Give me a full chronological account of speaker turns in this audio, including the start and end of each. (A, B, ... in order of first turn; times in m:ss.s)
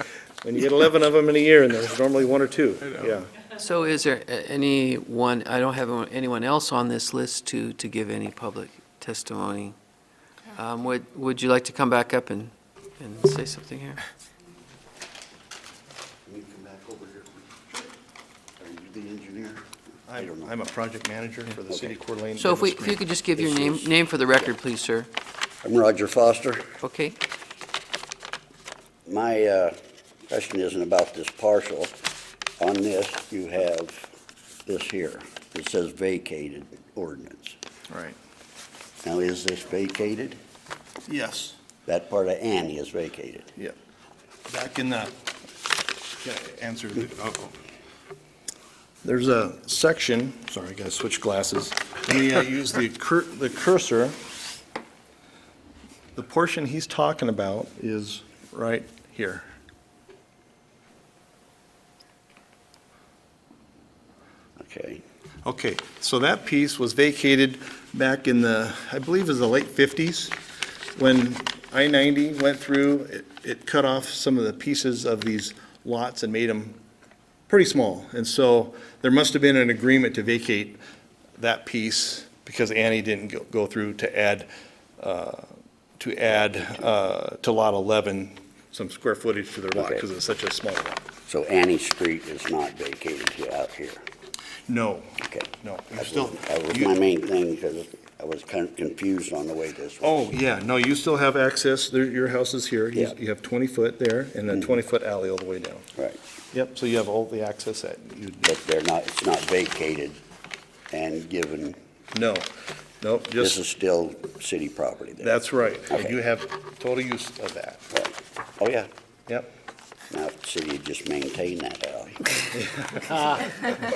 0:00.4-0:03.3 A
0:03.6-0:09.8 B
0:10.5-0:14.0 B
0:16.2-0:17.9 C
0:18.6-0:19.6 C
0:20.1-0:23.0 A
0:20.2-0:20.5 C
0:21.7-0:22.0 C
0:22.4-0:25.1 B
0:23.4-0:23.9 C
0:25.6-0:26.7 C
0:26.8-0:27.2 B
0:29.0-0:29.7 C
0:30.3-0:31.9 C
0:32.6-0:34.1 C
0:34.6-0:37.6 C
0:37.9-0:38.2 A
0:39.0-0:40.4 C
0:41.0-0:41.6 A
0:41.8-0:43.5 C
0:44.5-0:45.1 A
0:46.2-0:47.6 A
0:49.0-0:54.2 A
0:56.2-0:59.4 A
1:04.6-1:05.0 C
1:05.4-1:10.4 A
1:11.0-1:16.8 A
1:17.5-1:20.8 A
1:21.4-1:31.0 A
1:26.5-1:26.8 C
1:29.8-1:30.0 C
1:31.3-1:34.0 C
1:34.7-1:36.9 A
1:35.2-1:40.1 C
1:40.0-1:45.9 A
1:46.5-1:48.5 A
1:48.4-1:50.2 C
1:50.9-1:51.8 C
1:52.1-1:52.5 A
1:53.0-1:53.6 A
1:53.4-1:56.2 C
1:55.2-1:57.9 A
1:57.9-1:58.9 C
2:00.1-2:02.4 C
2:02.9-2:03.6 A